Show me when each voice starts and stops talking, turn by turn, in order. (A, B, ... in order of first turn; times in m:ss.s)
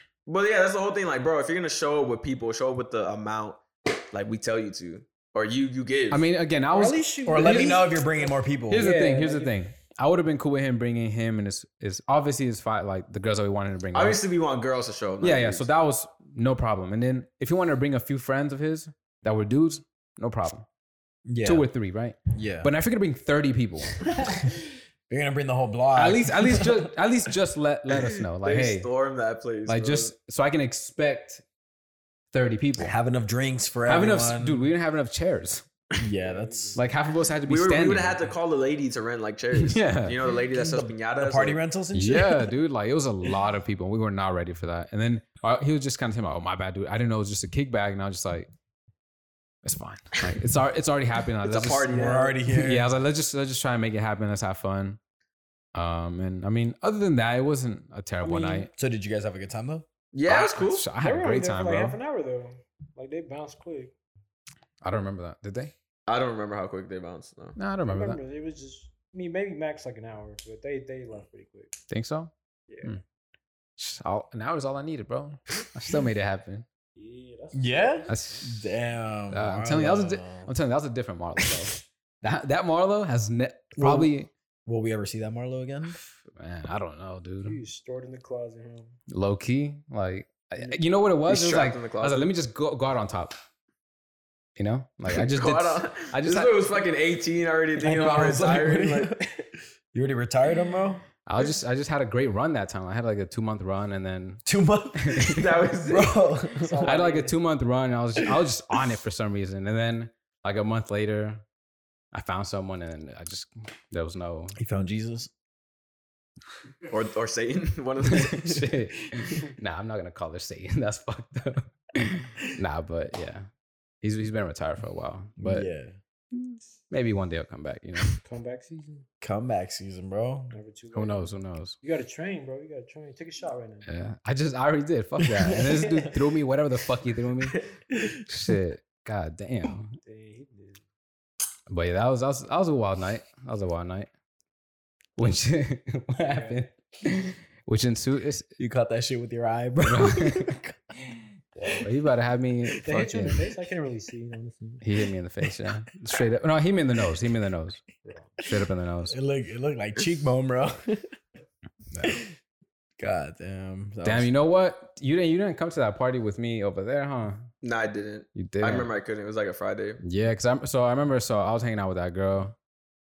0:00.3-0:06.2 A
0:06.1-0:07.7 B
0:06.7-0:09.5 C
0:07.3-0:08.9 D
0:08.7-0:14.2 B
0:13.9-0:15.7 A
0:15.2-0:20.7 B
0:21.3-0:21.7 D
0:21.4-0:24.1 B
0:22.4-0:22.7 D
0:24.3-0:24.5 D
0:25.1-0:26.9 D
0:26.0-0:28.9 B
0:28.4-0:30.1 A
0:29.7-0:31.4 B
0:32.3-0:33.0 B
0:32.8-0:34.7 D
0:33.9-0:35.7 B
0:36.0-0:36.8 D
0:36.2-0:36.9 C
0:36.8-0:38.3 B
0:37.5-0:41.6 A
0:39.6-0:40.2 B
0:40.5-0:42.5 D
0:41.9-0:48.5 B
0:49.6-0:52.0 B
0:51.4-0:52.4 A
0:51.9-0:52.9 D
0:52.0-0:52.3 C
0:52.5-0:55.0 B
0:55.8-0:58.7 B
0:58.2-0:58.7 C
0:58.7-0:59.9 D
1:00.1-1:00.9 A
1:00.3-1:02.0 B
1:01.0-1:03.9 C
1:04.8-1:05.7 B
1:06.1-1:07.6 A
1:07.6-1:08.2 B
1:07.8-1:11.7 C
1:11.9-1:12.3 B
1:12.7-1:13.0 C
1:13.8-1:16.7 B
1:17.0-1:18.4 C
1:17.5-1:20.5 D
1:18.1-1:18.7 B
1:19.3-1:24.3 B
1:23.8-1:24.1 D
1:24.7-1:26.0 D
1:26.2-1:27.6 B
1:27.4-1:29.0 C
1:29.1-1:33.3 B
1:31.3-1:32.3 A
1:34.6-1:36.6 B
1:35.1-1:39.1 A
1:37.8-1:41.0 D
1:41.3-1:44.4 B
1:44.4-1:46.8 D
1:45.0-1:45.4 B
1:45.3-1:46.2 A
1:46.6-1:47.4 C
1:46.8-1:51.4 B
1:52.1-1:54.6 B
1:54.6-1:55.3 D
1:56.9-1:58.7 A
1:58.0-2:03.5 B
2:04.0-2:05.7 B
2:05.4-2:06.0 D
2:06.9-2:08.2 B
2:08.2-2:09.1 C
2:09.2-2:10.5 D
2:10.5-2:13.9 C
2:10.9-2:11.8 B
2:13.8-2:17.6 B
2:15.2-2:16.1 D
2:17.9-2:18.2 D
2:18.3-2:20.0 B
2:20.0-2:20.8 C
2:21.7-2:24.1 B
2:25.2-2:28.5 B
2:26.2-2:26.6 C
2:28.6-2:30.8 D
2:29.8-2:30.5 B
2:31.7-2:33.5 B
2:32.8-2:34.8 C
2:34.8-2:37.8 B
2:38.0-2:38.3 C
2:38.4-2:39.2 B
2:39.1-2:41.1 D
2:41.9-2:42.2 B
2:42.0-2:42.3 D
2:43.0-2:44.3 D
2:44.0-2:47.5 B
2:47.6-2:50.0 A
2:48.4-2:48.9 B
2:50.0-2:52.6 B